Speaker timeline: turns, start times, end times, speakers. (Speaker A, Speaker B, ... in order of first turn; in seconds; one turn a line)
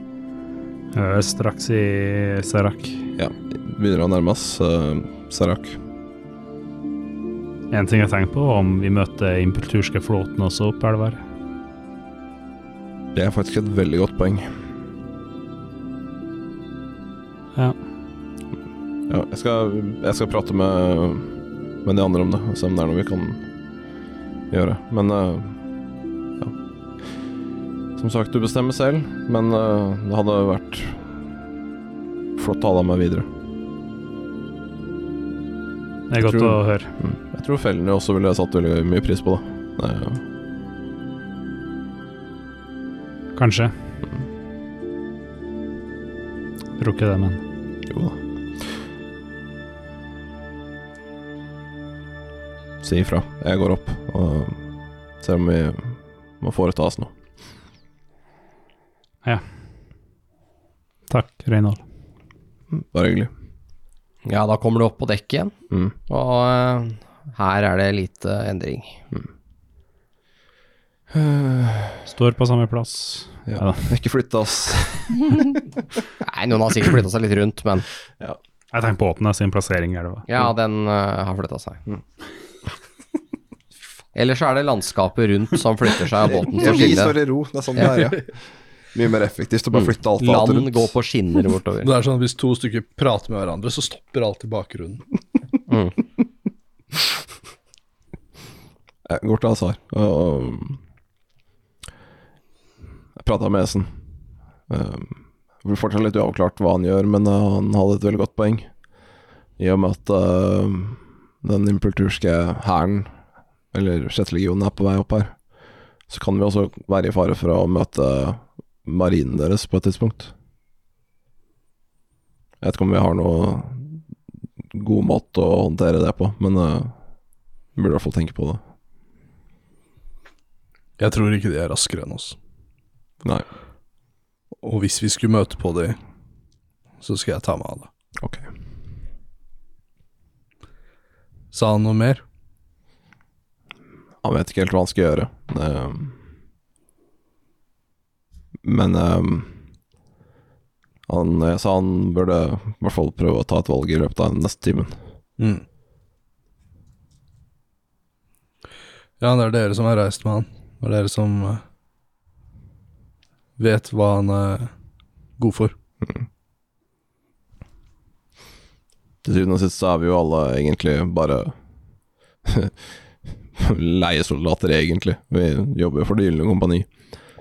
Speaker A: 0.9-3.1
Speaker B: 3.2-5.8
Speaker A: 7.7-11.2
Speaker B: 13.1-14.5
Speaker B: 19.1-21.3
Speaker B: 21.8-23.4
Speaker B: 24.5-25.6
Speaker B: 28.0-31.0
Speaker B: 32.4-33.3
Speaker A: 36.1-36.9
Speaker B: 36.2-40.2
Speaker A: 43.4-43.8
Speaker A: 46.8-47.4
Speaker B: 47.9-48.7
Speaker B: 52.8-54.6
Speaker B: 55.2-57.1
Speaker A: 61.1-61.8
Speaker B: 62.7-63.3
Speaker C: 64.2-65.5
Speaker B: 65.7-66.0
Speaker C: 66.1-69.0
Speaker B: 71.1-72.0
Speaker A: 72.1-73.9
Speaker B: 73.5-75.6
Speaker C: 76.2-77.9
Speaker A: 78.7-80.3
Speaker C: 80.3-81.8
Speaker C: 84.1-87.2
Speaker B: 86.4-88.4
Speaker B: 88.9-90.9
Speaker C: 89.8-91.9
Speaker D: 91.8-95.0
Speaker C: 95.7-96.0
Speaker B: 99.0-100.8
Speaker B: 103.2-103.9
Speaker B: 104.7-108.7
Speaker B: 109.6-113.2
Speaker B: 113.7-115.4
Speaker B: 116.1-120.3
Speaker B: 122.6-124.0
Speaker B: 124.7-127.0
Speaker B: 127.8-128.6
Speaker D: 131.0-132.4
Speaker D: 134.6-136.0
Speaker D: 137.0-137.9
Speaker B: 138.2-138.5
Speaker D: 141.5-142.2
Speaker B: 144.2-146.2
Speaker B: 148.6-149.6
Speaker B: 151.1-155.0
Speaker D: 155.4-155.6
Speaker D: 159.2-161.6
Speaker D: 163.6-164.7
Speaker D: 165.4-165.7
Speaker B: 169.2-171.6
Speaker B: 172.4-172.8
Speaker B: 173.6-176.9